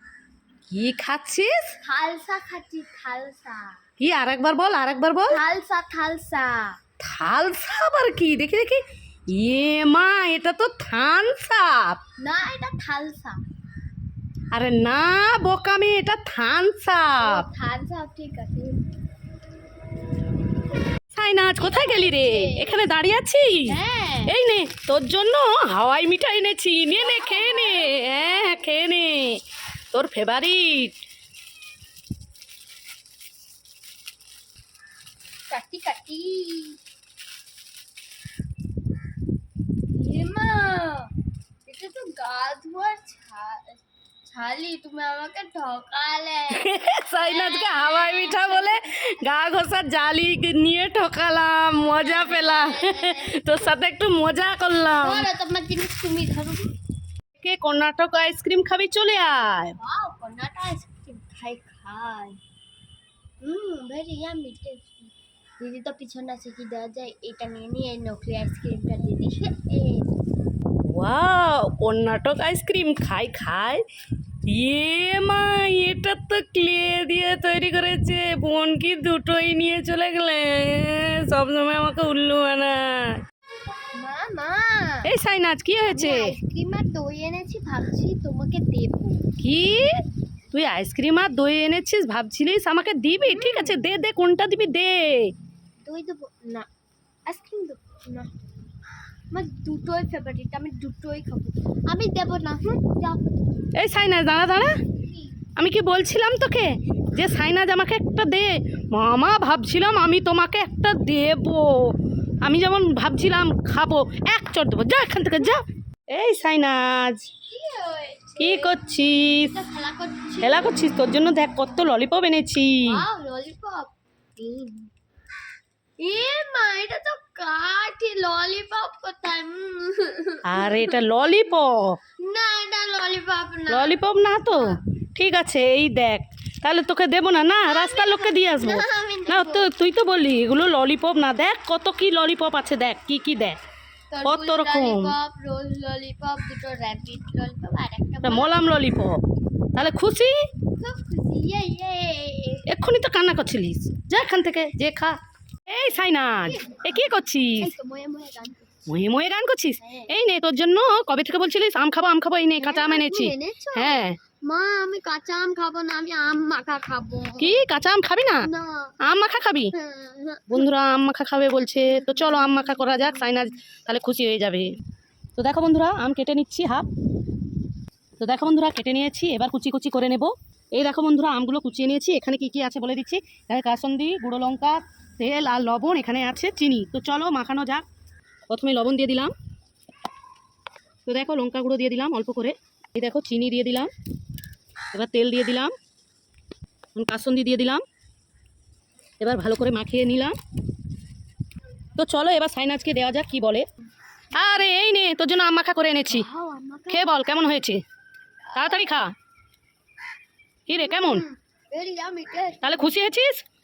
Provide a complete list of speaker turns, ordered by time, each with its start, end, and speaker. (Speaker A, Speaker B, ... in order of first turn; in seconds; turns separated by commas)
Speaker A: 0.7-1.7, Speaker B: 1.8-3.8, Speaker A: 4.0-5.4, Speaker B: 5.3-6.8, Speaker A: 7.0-12.0, Speaker B: 12.2-13.4, Speaker A: 14.5-17.4, Speaker B: 17.2-18.9, Speaker A: 21.1-23.8, Speaker B: 21.6-22.8, Speaker B: 23.7-24.4, Speaker A: 24.3-31.0, Speaker B: 27.0-28.6, Speaker B: 35.5-36.8, Speaker B: 40.0-41.1, Speaker B: 41.6-48.8, Speaker A: 46.5-55.3, Speaker B: 51.8-53.4, Speaker B: 55.0-56.7, Speaker A: 57.4-59.8, Speaker B: 59.8-62.4, Speaker B: 63.4-70.1, Speaker A: 70.8-73.8, Speaker A: 74.5-83.2, Speaker B: 83.9-85.1, Speaker A: 85.0-86.3, Speaker B: 85.9-89.2, Speaker A: 89.4-90.0, Speaker A: 90.5-95.3, Speaker B: 93.2-93.8, Speaker B: 95.8-96.7, Speaker B: 97.3-98.3, Speaker B: 99.3-103.6, Speaker A: 103.7-104.8, Speaker B: 104.9-105.2, Speaker A: 105.6-117.3, Speaker B: 117.5-118.8, Speaker A: 118.4-119.5, Speaker B: 119.4-120.8, Speaker A: 120.4-123.0, Speaker B: 122.8-124.9, Speaker B: 126.0-131.0, Speaker A: 130.4-132.0, Speaker B: 132.2-134.0, Speaker A: 133.7-143.6, Speaker B: 137.6-139.7, Speaker B: 144.1-148.8, Speaker A: 144.2-145.1, Speaker A: 148.2-149.2, Speaker A: 149.7-150.4, Speaker B: 150.8-152.7, Speaker A: 152.7-157.7, Speaker B: 156.4-156.8, Speaker B: 157.6-158.9, Speaker A: 158.9-164.2, Speaker B: 159.8-160.1, Speaker B: 162.6-167.6, Speaker A: 167.4-168.5, Speaker B: 168.4-168.9, Speaker A: 169.0-169.7, Speaker B: 169.7-170.7, Speaker A: 170.5-174.7, Speaker A: 175.3-176.9, Speaker A: 178.2-187.8, Speaker A: 188.5-189.3, Speaker A: 191.1-193.9, Speaker A: 194.9-195.7, Speaker A: 196.9-197.8, Speaker A: 199.2-200.3, Speaker A: 202.0-203.7, Speaker A: 204.3-206.2, Speaker B: 206.1-207.1, Speaker A: 206.9-207.8, Speaker A: 208.5-209.1, Speaker B: 208.6-208.9, Speaker A: 210.7-211.2, Speaker B: 210.8-212.9, Speaker A: 212.6-213.4